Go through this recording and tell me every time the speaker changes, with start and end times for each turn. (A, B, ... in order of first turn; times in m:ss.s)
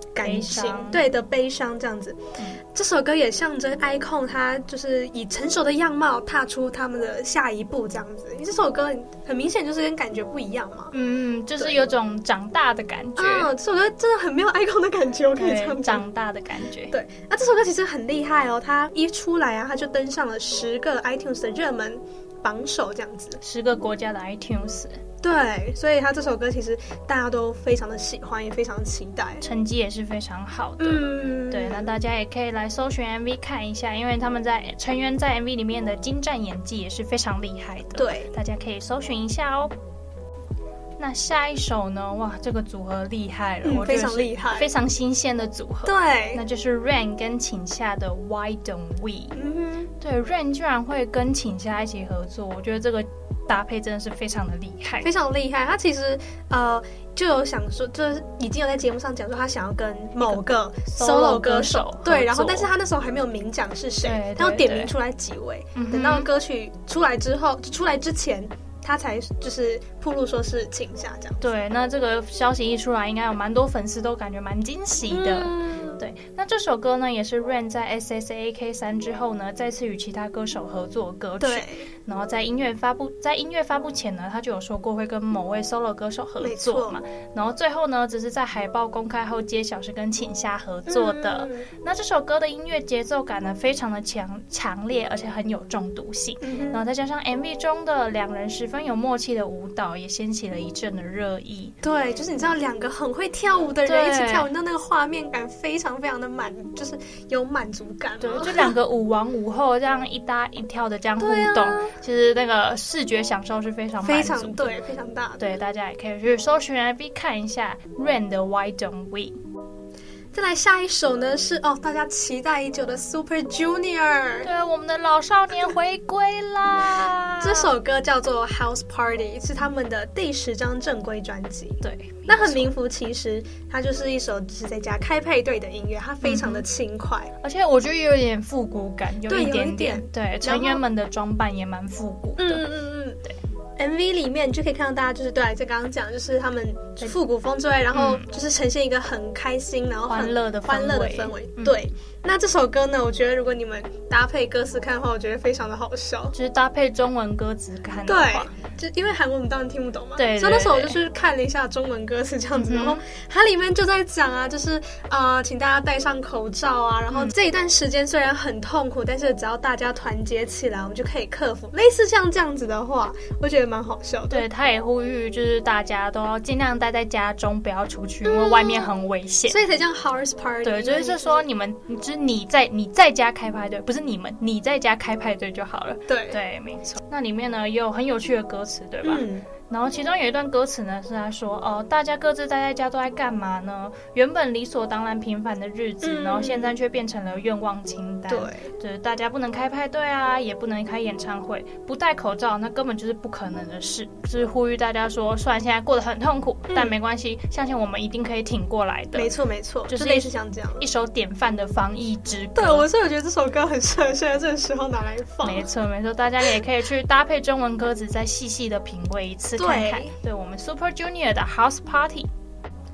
0:00.2-0:02.2 A
0:00.2-0:01.0 B
0:02.7-0:10.9 A
0:10.9-0:13.5 B
0:11.6-0:11.9 A
0:13.2-0:16.0 A
0:15.4-0:16.9 B
0:16.9-0:23.4 A
0:23.4-0:25.0 B
0:25.2-0:29.4 A
0:29.4-0:39.7 B
0:30.8-0:31.9 A
0:38.0-0:38.3 A
0:41.0-0:49.4 B
0:43.6-0:44.7 A
0:45.9-0:46.4 A
0:49.3-0:49.9 A
0:50.0-0:55.1 B
0:55.0-1:11.6 A
1:00.2-1:02.7 B
1:04.0-1:04.9 B
1:05.8-1:06.3 B
1:11.4-1:41.8 B
1:15.1-1:16.0 A
1:21.4-1:21.9 A
1:26.4-1:27.0 A
1:30.9-1:31.7 A
1:36.4-1:36.8 A
1:41.8-1:48.7 A
1:43.8-1:44.5 B
1:48.2-1:54.8 B
1:51.2-1:51.9 A
1:54.0-1:55.6 A
1:55.4-1:59.4 B
2:00.3-2:04.5 A
2:04.4-2:07.7 B
2:07.4-2:17.3 A
2:11.8-2:12.7 B
2:16.2-2:16.6 B
2:17.4-2:22.7 B
2:19.3-2:20.8 A
2:22.4-2:23.2 A
2:23.8-2:36.3 A
2:27.9-2:28.3 B
2:30.1-2:31.8 B
2:36.3-2:38.5 B
2:38.1-2:54.5 A
2:40.2-2:41.0 B
2:42.6-2:43.0 B
2:54.3-2:59.6 B
2:58.2-2:58.9 A
2:59.5-3:01.4 A
3:00.6-3:29.3 B
3:06.1-3:06.4 A
3:09.0-3:09.5 A
3:16.0-3:16.8 A
3:18.3-3:18.7 A
3:26.7-3:27.0 A
3:29.2-3:30.8 A
3:29.9-3:32.9 B
3:32.6-3:35.7 A
3:35.4-3:42.3 B
3:39.6-3:40.2 A